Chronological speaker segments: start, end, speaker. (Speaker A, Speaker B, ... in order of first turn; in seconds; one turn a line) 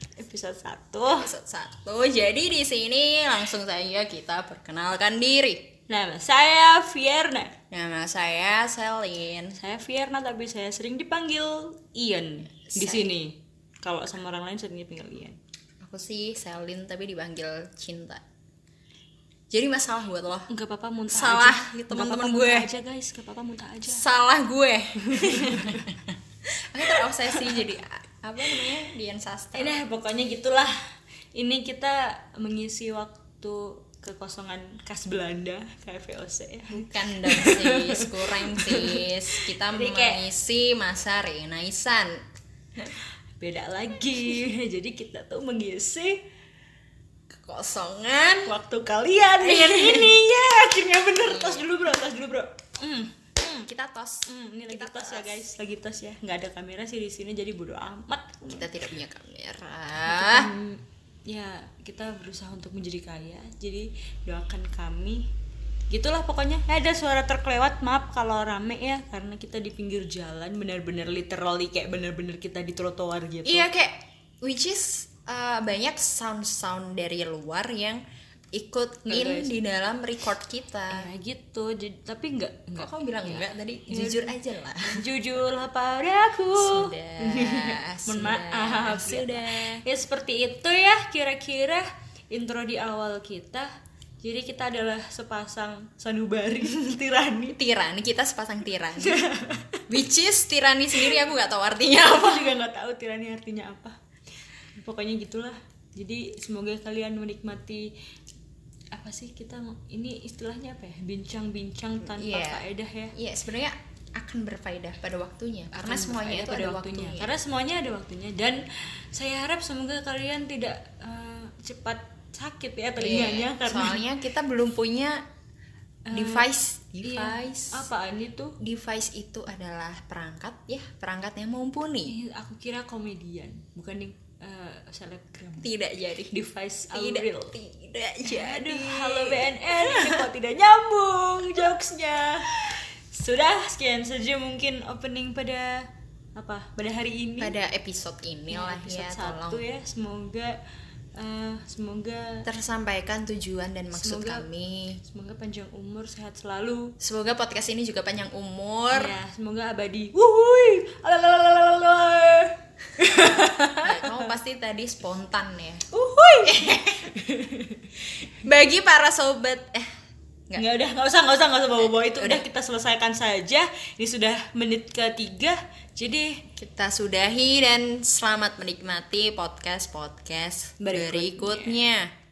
Speaker A: 0.2-1.3
Speaker B: 1.1-5.7
Speaker A: 5.9-7.6
Speaker B: 7.7-9.6
Speaker A: 9.5-15.4
Speaker B: 12.6-13.1
Speaker B: 15.8-18.2
Speaker B: 19.5-20.5
Speaker A: 20.5-24.0
Speaker B: 21.1-22.7
Speaker B: 23.9-29.8
Speaker A: 25.1-25.8
Speaker A: 29.5-30.7
Speaker A: 31.3-40.3
Speaker B: 36.7-42.2
Speaker A: 43.4-46.2
Speaker B: 47.3-48.5
Speaker A: 48.4-53.7
Speaker B: 49.4-50.2
Speaker B: 51.3-51.6
Speaker B: 53.6-55.5
Speaker A: 54.3-58.7
Speaker B: 58.5-60.5
Speaker A: 60.1-65.3
Speaker A: 65.9-73.7
Speaker B: 73.5-81.1
Speaker A: 79.1-79.6
Speaker A: 80.9-97.6
Speaker B: 82.8-85.1
Speaker B: 86.5-89.8
Speaker B: 97.5-99.2
Speaker A: 99.0-99.8
Speaker B: 99.9-102.6
Speaker A: 101.0-101.2
Speaker A: 102.0-104.0
Speaker A: 104.8-108.0
Speaker A: 108.9-113.2
Speaker B: 112.0-117.3
Speaker A: 115.7-124.0
Speaker B: 123.0-125.2
Speaker A: 126.1-126.5
Speaker B: 126.1-127.9
Speaker A: 127.0-128.6
Speaker B: 128.6-132.2
Speaker A: 132.1-135.7
Speaker B: 135.6-140.3
Speaker A: 136.3-137.6
Speaker A: 138.2-147.6
Speaker B: 147.4-149.6
Speaker A: 148.5-150.6
Speaker A: 151.2-152.5
Speaker B: 152.5-155.0
Speaker A: 153.9-154.5
Speaker A: 155.0-157.0
Speaker B: 157.0-159.2
Speaker A: 158.9-164.3
Speaker B: 163.8-165.9
Speaker A: 165.9-168.0
Speaker B: 166.4-167.1
Speaker B: 168.2-169.9
Speaker A: 170.6-176.4
Speaker B: 171.8-172.4
Speaker B: 176.6-182.1
Speaker A: 180.8-181.9